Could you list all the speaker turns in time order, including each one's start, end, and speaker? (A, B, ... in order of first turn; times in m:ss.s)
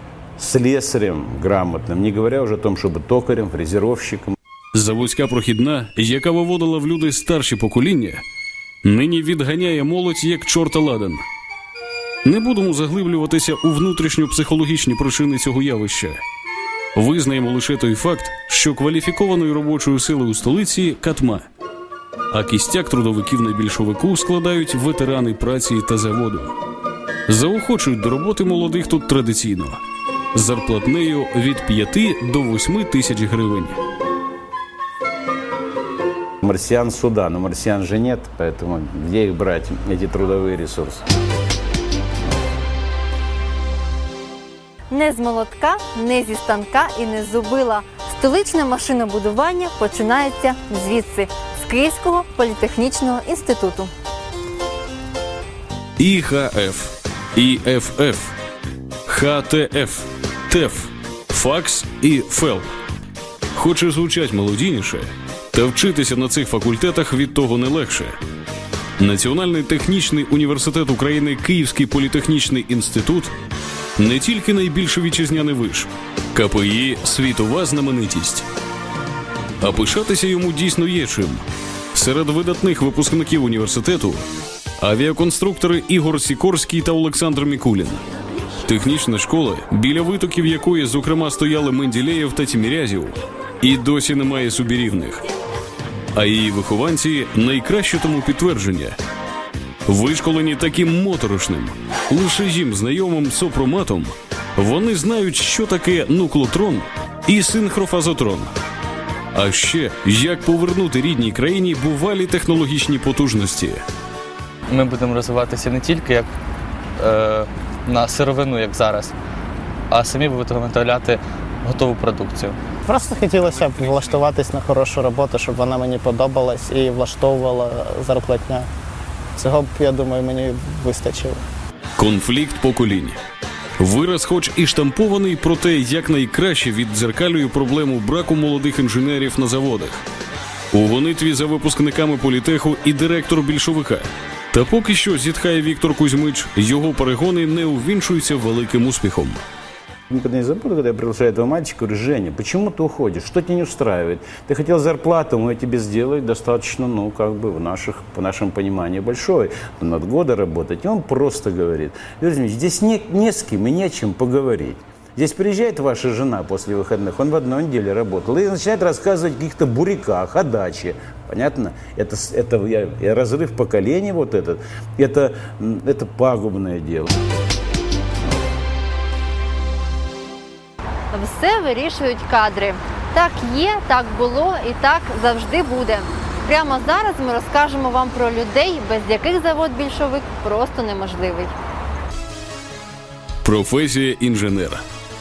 0:00.4-0:04.3 A
0:04.7-0:08.2 B
0:08.8-0:11.2 B
0:12.2-0:16.2 B
0:16.9-0:21.4 B
0:22.3-0:26.6 B
0:27.3-0:29.8 B
0:30.3-0:33.8 B
0:36.4-0:41.0 A
0:44.9-0:53.9 C
0:56.0-0:58.4 B
0:59.1-1:02.7 B
1:03.5-1:08.2 B
1:09.0-1:13.3 B
1:14.0-1:18.4 B
1:19.6-1:24.2 B
1:24.8-1:28.0 B
1:28.6-1:35.2 B
1:36.1-1:39.0 B
1:39.9-1:48.5 B
1:49.3-1:53.8 B
1:54.7-1:56.3 D
1:57.0-1:59.1 D
1:59.9-2:02.6 D
2:02.9-2:08.7 E
2:09.4-2:11.4 E
2:12.0-2:13.2 B
2:13.8-2:20.0 B
2:20.7-2:29.4 B
2:30.1-2:57.1 A
3:01.1-3:11.5 C
3:13.4-3:14.8 B